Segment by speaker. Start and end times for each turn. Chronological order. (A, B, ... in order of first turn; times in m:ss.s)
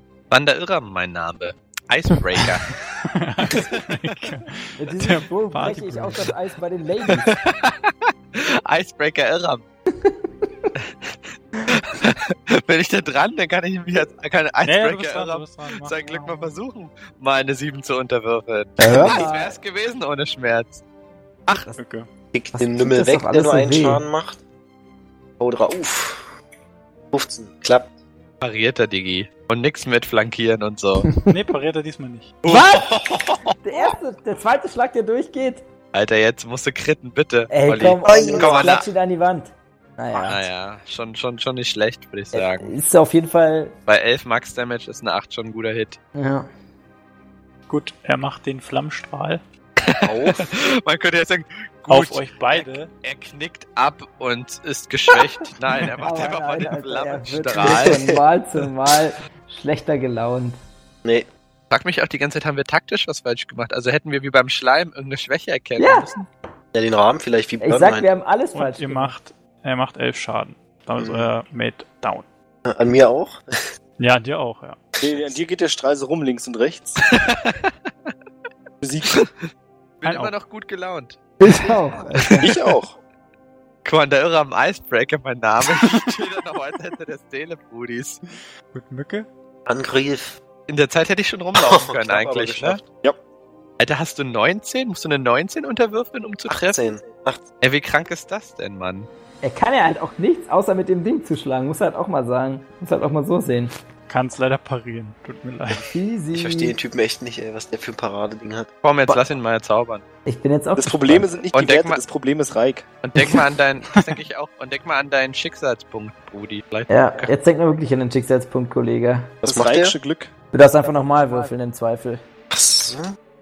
0:00.3-0:02.8 A
0:03.0-0:06.3 B
0:03.5-0:04.0 A
0:04.8-0:07.3 C
0:07.2-0:09.6 A
0:09.9-0:10.7 C
0:10.8-0:20.8 A
0:14.6-0:16.5 B
0:18.8-0:19.6 C
0:18.8-0:19.2 D
0:21.5-0:21.7 A
0:21.8-0:22.1 B
0:22.3-0:24.4 D
0:22.5-0:24.0 C
0:25.4-0:26.3 D
0:27.1-0:27.9 D
0:28.4-0:31.1 A
0:31.3-0:32.4 B
0:32.4-0:33.9 A
0:33.6-0:35.6 C
0:35.9-0:38.8 A
0:37.5-0:40.5 C
0:38.0-0:38.8 D
0:40.1-0:42.7 A
0:42.3-0:43.8 C
0:43.9-0:46.0 A
0:46.1-0:46.5 C
0:47.7-0:49.4 B
0:49.8-0:58.0 A
0:50.0-0:50.5 D
0:51.9-0:52.9 B
0:56.0-1:00.6 C
0:57.6-0:57.9 D
1:01.7-1:06.1 A
1:05.8-1:06.3 C
1:06.7-1:08.0 D
1:07.6-1:09.1 C
1:08.5-1:12.3 B
1:11.0-1:11.3 D
1:12.6-1:13.7 D
1:14.0-1:14.8 B
1:15.0-1:17.0 E
1:15.0-1:15.4 D
1:17.1-1:18.1 A
1:18.8-1:19.2 E
1:19.1-1:19.5 A
1:20.0-1:21.2 A
1:20.0-1:20.3 B
1:21.4-1:22.5 C
1:22.4-1:23.0 E
1:23.8-1:28.2 A
1:28.7-1:29.3 B
1:29.7-1:30.4 D
1:30.7-1:32.8 A
1:31.5-1:32.9 D
1:33.8-1:36.8 A
1:36.5-1:37.4 D
1:37.6-1:39.1 A
1:39.4-1:43.7 C
1:44.1-1:45.9 B
1:45.8-1:46.8 C
1:46.3-1:49.3 D
1:48.8-1:50.0 A
1:50.2-1:51.3 C
1:50.8-1:53.0 E
1:51.5-1:52.0 A
1:53.0-1:57.3 A
1:56.9-1:59.4 C
1:59.4-2:00.0 D
1:59.4-2:00.3 E
2:00.5-2:02.2 C
2:02.5-2:03.2 D